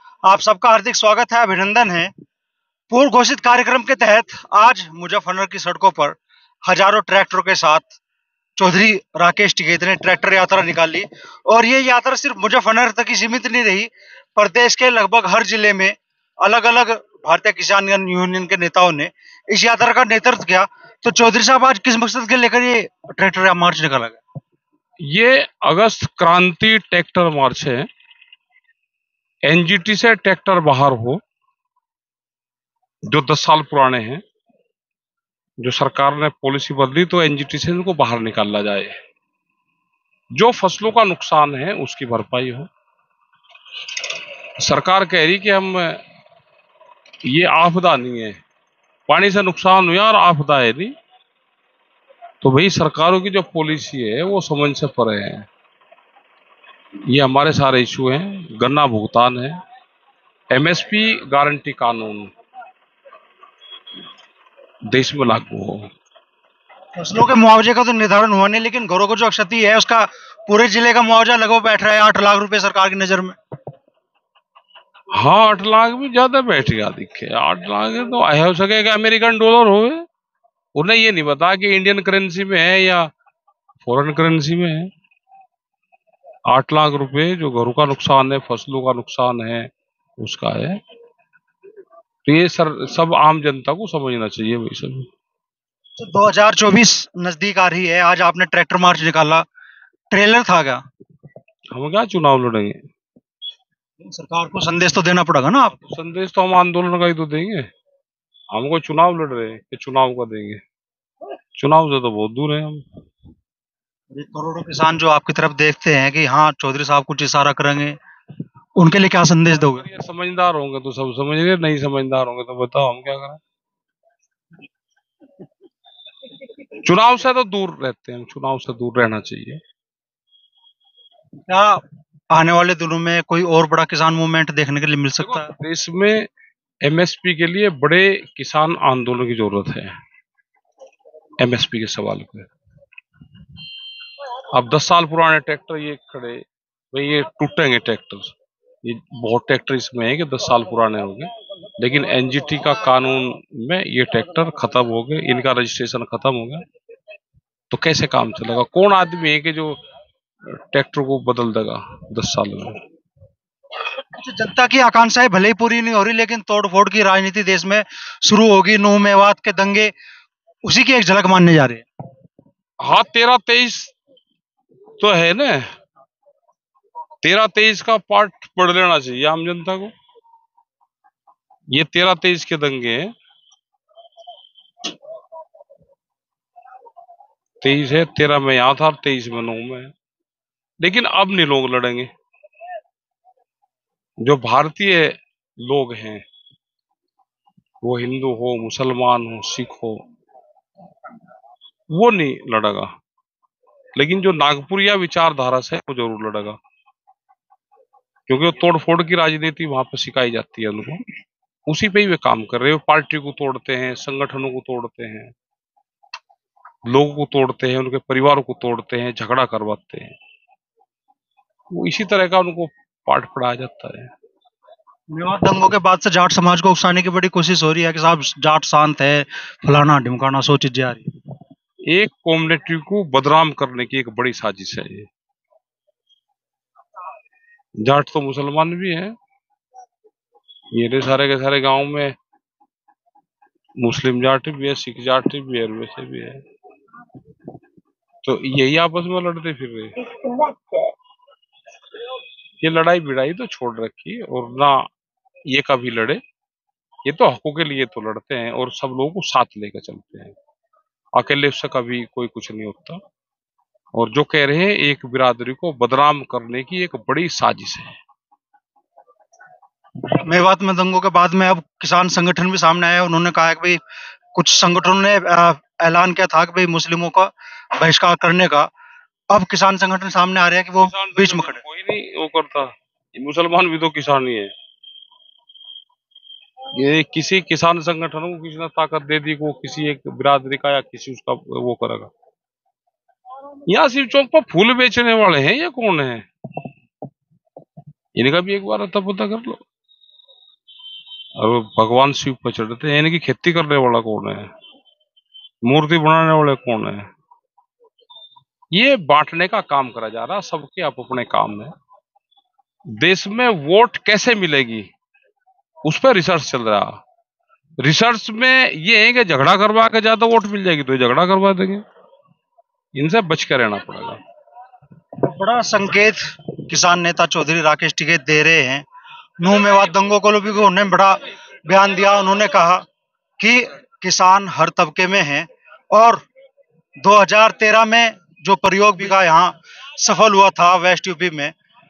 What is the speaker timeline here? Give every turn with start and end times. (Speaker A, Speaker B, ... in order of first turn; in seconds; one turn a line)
Speaker A: 0.2-2.1
Speaker A: 2.9-7.9
Speaker A: 8.6-24.2
Speaker B: 25.1-27.9
Speaker B: 29.4-31.2
Speaker B: 33.1-34.2
Speaker B: 35.6-39.0
Speaker B: 40.3-42.7
Speaker B: 44.6-46.0
Speaker B: 47.2-48.4
Speaker B: 49.1-50.9
Speaker B: 52.4-55.5
Speaker B: 57.1-59.6
Speaker B: 60.5-62.3
Speaker B: 64.9-65.9
Speaker A: 67.0-73.3
Speaker B: 75.1-80.0
Speaker B: 80.7-83.1
Speaker B: 83.8-84.9
Speaker B: 86.5-90.8
Speaker B: 92.2-95.1
Speaker A: 96.0-99.4
Speaker A: 100.1-100.8
Speaker B: 101.7-102.8
Speaker A: 104.0-105.7
Speaker B: 105.8-107.7
Speaker B: 108.5-110.6
Speaker B: 111.6-112.8
Speaker A: 114.1-118.0
Speaker A: 118.8-119.8
Speaker B: 119.5-123.4
Speaker B: 126.7-129.6
Speaker A: 131.5-131.8
Speaker A: 132.3-135.5
Speaker B: 135.2-136.3
Speaker B: 136.8-139.9
Speaker B: 141.4-142.5
Speaker B: 144.5-156.6
Speaker B: 157.7-159.8
Speaker B: 160.5-162.8
Speaker A: 164.2-169.9
Speaker A: 170.6-171.8
Speaker B: 172.8-173.9
Speaker B: 175.0-175.7
Speaker B: 177.2-179.9
Speaker B: 181.7-183.1
Speaker B: 187.6-189.9
Speaker B: 190.8-192.1
Speaker B: 194.2-196.2
Speaker B: 197.8-200.0
Speaker B: 201.9-202.9
Speaker B: 203.9-206.6
Speaker B: 208.3-211.0
Speaker B: 211.7-215.3
Speaker B: 216.9-220.1
Speaker B: 221.7-224.1
Speaker A: 225.1-231.1
Speaker B: 231.9-235.1
Speaker B: 237.8-239.1
Speaker B: 240.7-242.1
Speaker B: 243.8-246.4
Speaker B: 248.2-249.9
Speaker B: 252.6-254.8
Speaker B: 255.4-256.2
Speaker B: 257.0-260.3
Speaker B: 261.1-263.0
Speaker B: 263.9-268.0
Speaker A: 270.3-273.8
Speaker A: 274.3-278.7
Speaker A: 279.3-281.6
Speaker B: 280.8-284.5
Speaker B: 286.7-292.1
Speaker B: 293.7-296.2
Speaker B: 298.1-299.6
Speaker B: 301.4-304.5
Speaker B: 305.6-307.1
Speaker B: 308.7-311.7
Speaker B: 313.0-314.9
Speaker B: 315.8-317.0
Speaker B: 317.8-321.8
Speaker B: 322.9-324.2
Speaker A: 325.2-328.8
Speaker A: 329.4-332.8
Speaker A: 333.4-336.2
Speaker A: 337.0-341.5